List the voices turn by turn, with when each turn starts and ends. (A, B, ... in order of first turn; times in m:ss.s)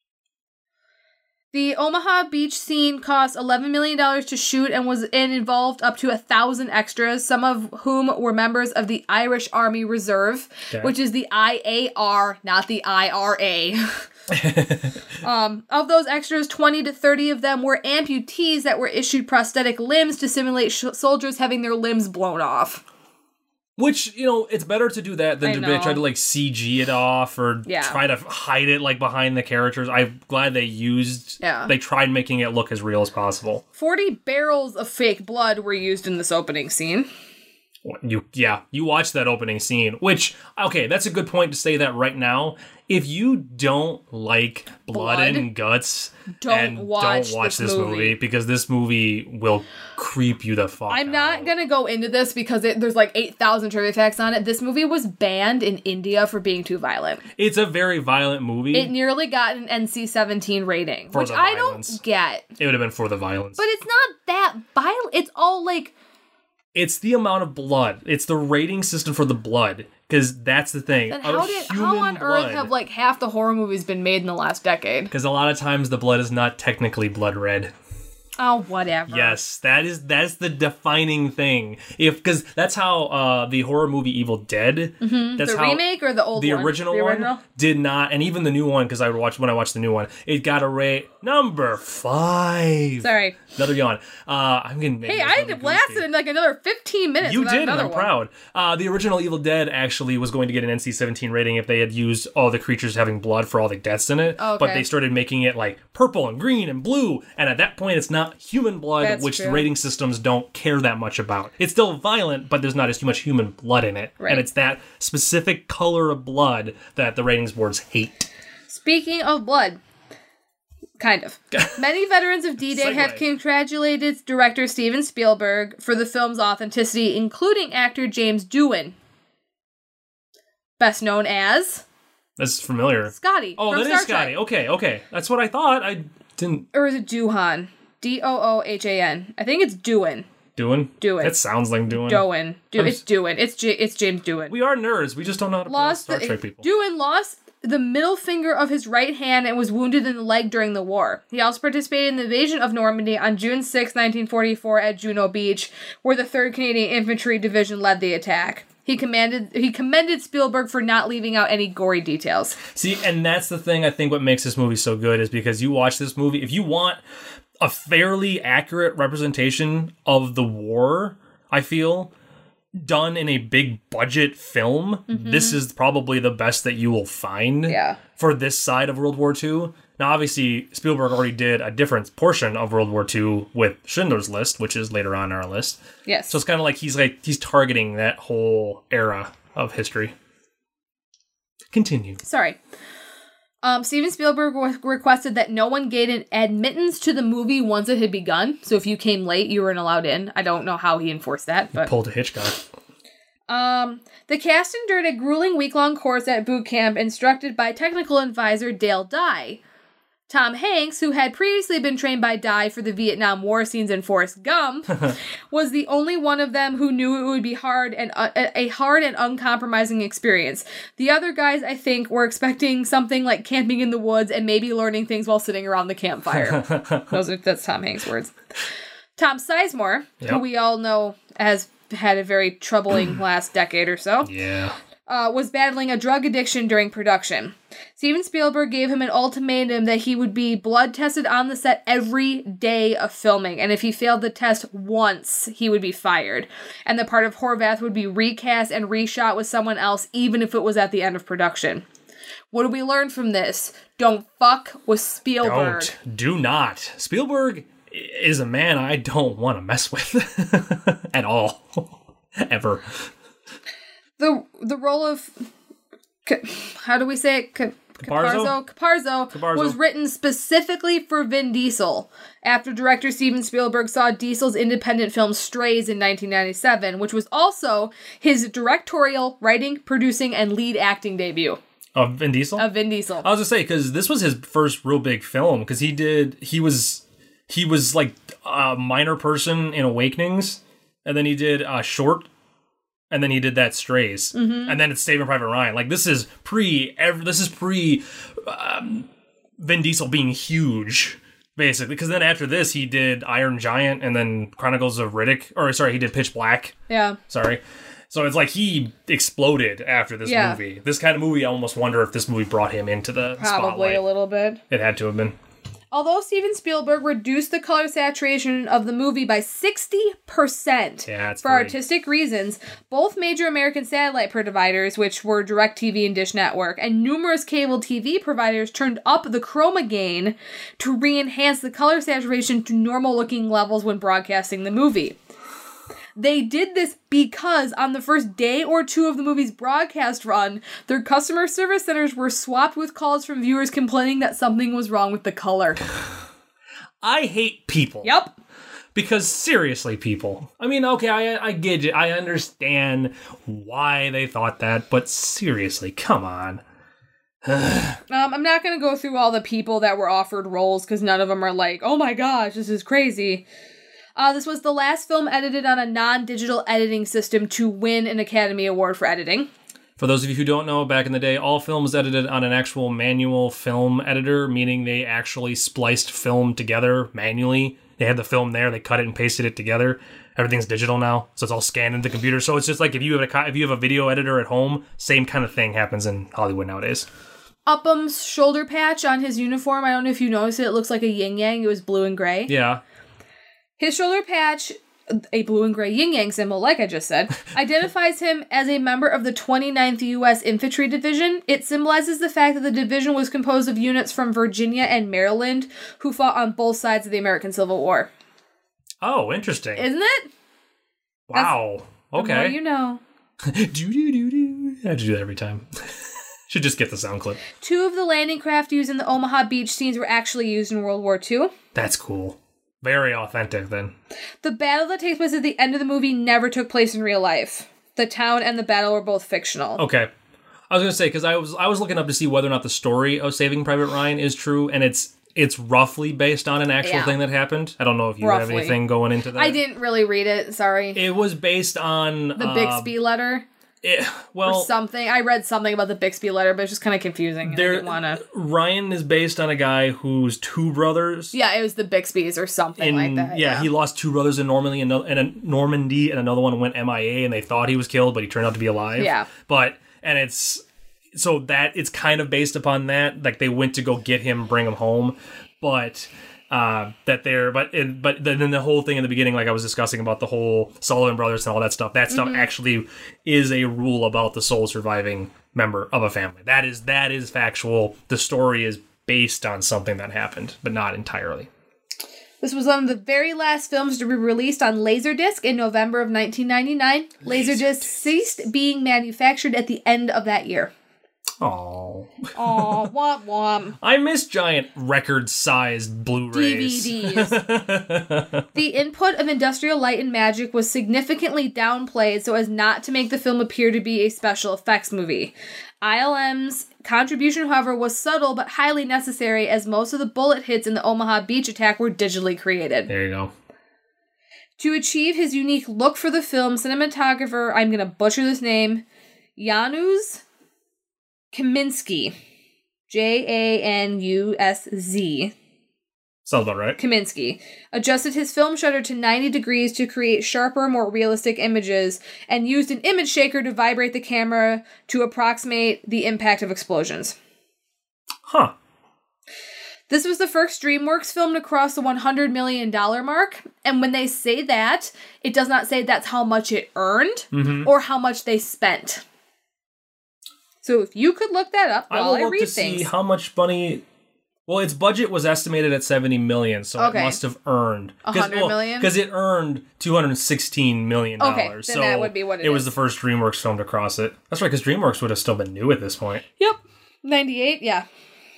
0:01.5-0:14.1 A
0:14.3-0:15.0 B
0:15.2-0:22.8 A
0:23.8-0:33.6 B
0:25.4-0:26.0 A
0:27.7-0:28.0 A
0:31.4-0:31.7 A
0:33.8-0:37.1 A
0:37.8-0:51.5 B
0:44.9-0:45.5 A
0:46.4-0:48.2 A
0:50.9-0:57.2 A
0:57.4-0:58.9 B
0:58.7-1:02.5 A
1:01.1-1:02.0 B
1:02.6-1:03.6 B
1:03.6-1:05.9 A
1:06.7-1:12.7 B
1:11.1-1:15.1 A
1:15.1-1:17.7 B
1:18.4-1:19.4 A
1:19.1-1:36.1 B
1:25.0-1:27.4 A
1:33.0-1:33.4 A
1:35.0-1:38.1 A
1:37.2-1:58.3 B
1:44.4-1:44.9 A
1:49.0-1:49.7 A
1:54.2-1:54.5 A
1:58.7-1:59.8 A
2:01.0-2:09.0 A
2:02.7-2:03.2 B
2:10.8-2:11.8 A
2:12.4-2:16.7 B
2:13.1-2:14.4 A
2:16.7-2:20.3 A
2:20.6-2:23.0 B
2:21.0-2:21.4 A
2:21.9-2:24.5 A
2:24.5-2:26.7 B
2:25.7-2:42.6 A
2:42.7-2:47.0 B
2:47.6-2:52.1 B
2:52.8-3:10.2 B
2:55.1-2:55.6 A
2:57.7-2:58.0 A
3:06.1-3:06.3 A
3:11.7-3:12.2 B
3:12.2-3:12.6 A
3:13.6-3:21.9 A
3:21.7-3:22.6 B
3:23.5-3:29.6 A
3:30.3-3:48.3 A
3:46.3-3:47.1 B
3:49.2-3:54.3 A
3:54.2-3:54.8 B
3:55.1-4:11.8 A
4:12.5-4:15.9 A
4:15.4-4:23.1 B
4:24.2-4:25.3 A
4:26.3-4:41.6 A
4:28.0-4:28.6 B
4:29.3-4:29.8 B
4:42.0-4:42.7 B
4:42.6-4:43.3 A
4:43.2-4:52.3 B
4:53.1-5:06.8 B
4:54.3-4:54.8 A
5:06.9-5:07.2 A
5:07.3-5:14.0 B
5:10.2-5:10.6 A
5:13.4-5:14.6 A
5:14.7-5:15.4 B
5:15.9-5:35.2 A
5:21.1-5:21.8 B
5:36.2-5:45.8 A
5:47.0-5:48.1 B
5:48.0-5:48.4 A
5:48.9-5:56.6 B
5:57.4-5:58.0 B
5:58.1-6:03.4 A
6:04.2-6:09.5 A
6:10.0-6:27.1 B
6:27.7-6:32.5 A
6:32.5-6:32.8 B
6:33.8-6:48.1 A
6:49.0-6:49.9 B
6:49.8-6:50.3 A
6:51.3-6:52.6 B
6:52.1-6:53.0 A
6:53.4-6:55.9 B
6:56.5-6:57.4 B
6:57.6-7:01.5 A
7:01.7-7:04.0 B
7:04.4-7:09.8 A
7:09.8-7:10.1 B
7:10.7-7:19.6 B
7:16.8-7:17.2 A
7:18.2-7:18.8 A
7:19.3-7:21.0 A
7:21.0-7:22.9 B
7:22.4-7:23.5 A
7:23.8-7:24.7 B
7:24.4-7:28.2 A
7:27.4-7:31.3 B
7:31.3-7:33.7 A
7:32.8-8:01.5 B
7:39.0-7:39.3 A
7:52.1-7:52.5 A
8:02.4-8:10.7 A
8:07.2-8:08.0 B
8:11.4-8:12.9 B
8:12.4-8:13.8 A
8:13.8-8:18.5 B
8:16.3-8:17.4 A
8:18.6-8:32.9 A
8:32.9-8:33.3 B
8:34.6-8:38.8 A
8:39.4-8:40.2 A
8:41.3-8:42.2 A
8:42.9-8:45.3 A
8:46.2-8:46.8 B
8:46.8-8:57.2 A
8:58.3-8:58.6 B
8:59.9-9:09.0 A
9:07.3-9:07.7 B
9:10.6-9:12.9 A
9:11.9-9:13.8 B
9:14.5-9:26.2 B
9:16.8-9:17.2 A
9:18.0-9:18.9 A
9:21.2-9:22.7 A
9:26.4-9:27.9 A